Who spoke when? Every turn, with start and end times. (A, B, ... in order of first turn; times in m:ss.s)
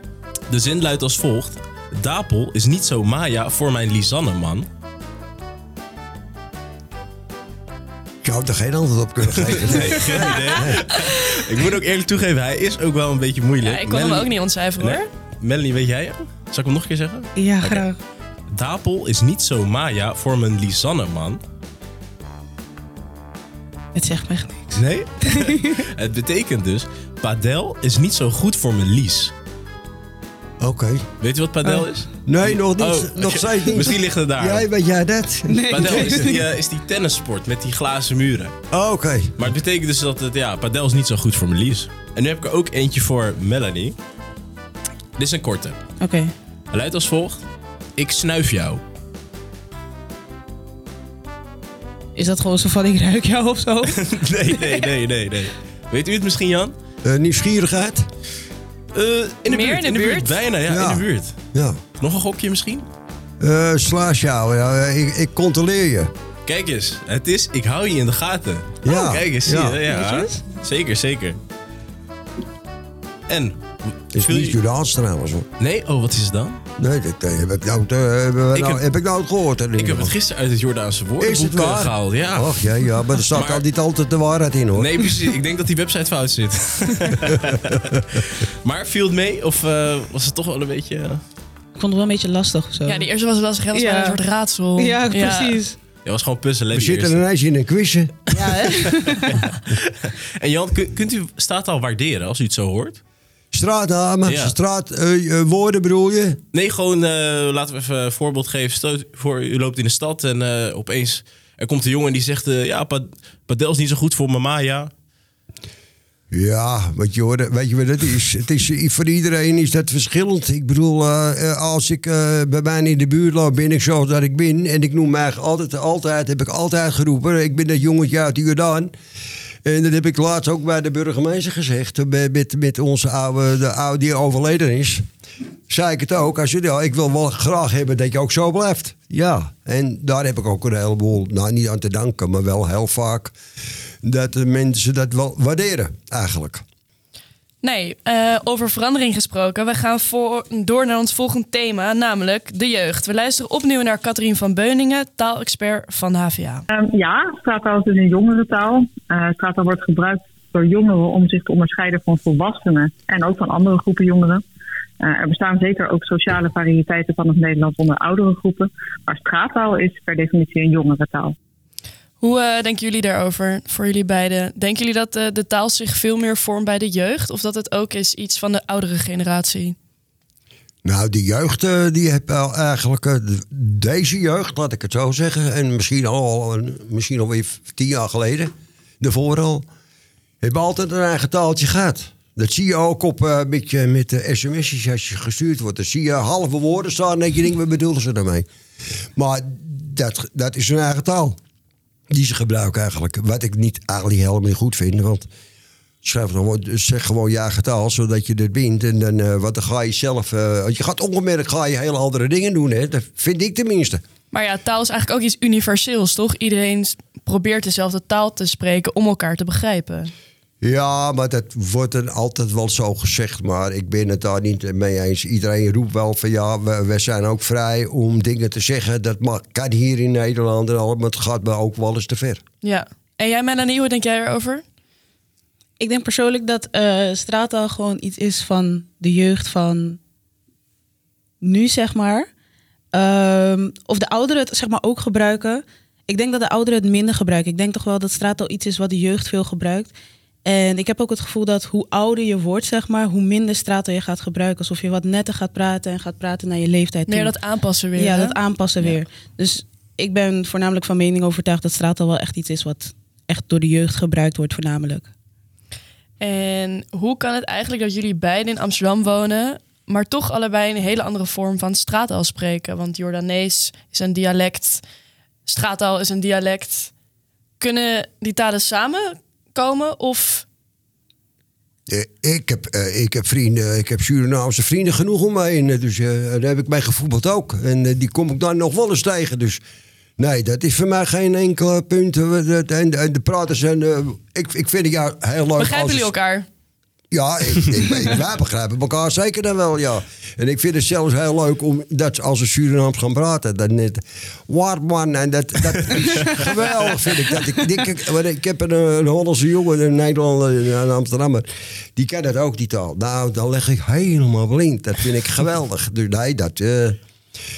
0:00.5-0:04.7 A
0:08.2-0:10.8 B
0:09.4-0:17.8 A
0:13.6-0:15.1 C
0:17.4-0:18.0 D
0:18.5-0:21.4 A
0:23.9-0:25.8 D
0:24.7-0:29.3 A
0:30.6-0:31.0 B
0:31.2-0:34.6 A
0:32.2-0:36.4 B
0:35.5-0:36.3 D
0:35.7-0:38.6 A
0:38.7-0:39.5 B
0:39.4-0:44.0 A
0:45.2-0:45.8 A
0:46.0-0:46.3 D
0:46.7-0:47.4 A
0:48.0-0:48.8 A
0:52.1-0:54.9 D
0:53.8-0:56.7 A
0:57.0-0:58.0 B
0:58.9-1:01.4 A
0:59.5-1:00.4 C
1:00.7-1:01.8 B
1:02.0-1:02.9 A
1:03.4-1:06.1 B
1:06.4-1:11.4 A
1:08.8-1:09.8 B
1:09.8-1:10.4 D
1:13.3-1:14.6 A
1:14.1-1:15.5 B
1:15.6-1:16.6 A
1:16.8-1:20.1 B
1:18.5-1:18.8 A
1:19.8-1:22.7 A
1:21.2-1:25.0 B
1:23.3-1:23.6 A
1:24.7-1:31.2 A
1:31.8-1:33.1 D
1:32.8-1:35.6 C
1:33.7-1:34.2 D
1:34.8-1:35.8 D
1:36.0-1:37.2 A
1:36.7-1:38.2 B
1:38.3-1:39.4 D
1:38.6-1:43.0 A
1:43.5-1:46.4 B
1:44.2-1:44.5 A
1:46.5-1:54.9 A
1:56.3-2:08.9 B
2:09.6-2:15.0 B
2:15.7-2:23.3 B
2:24.0-2:26.6 B
2:27.6-2:36.6 C
2:36.7-2:44.4 E
2:45.0-2:51.3 E
2:52.2-2:59.8 C
3:00.8-3:09.6 B
3:10.4-3:18.4 B
3:19.2-3:21.4 B
3:22.1-3:25.3 B
3:26.0-3:34.0 B
3:34.3-3:40.1 C
3:40.6-3:52.4 B
3:52.6-3:54.6 C
3:55.8-4:00.0 D
4:01.4-4:02.3 D
4:02.9-4:09.9 D
4:10.4-4:17.4 D
4:17.1-4:19.0 C
4:18.0-4:25.1 D
4:26.2-4:34.8 C
4:35.4-4:36.9 C
4:37.6-4:40.4 C
4:41.9-4:49.6 B
4:50.2-4:56.1 B
4:55.6-4:56.5 C
4:57.1-5:17.0 B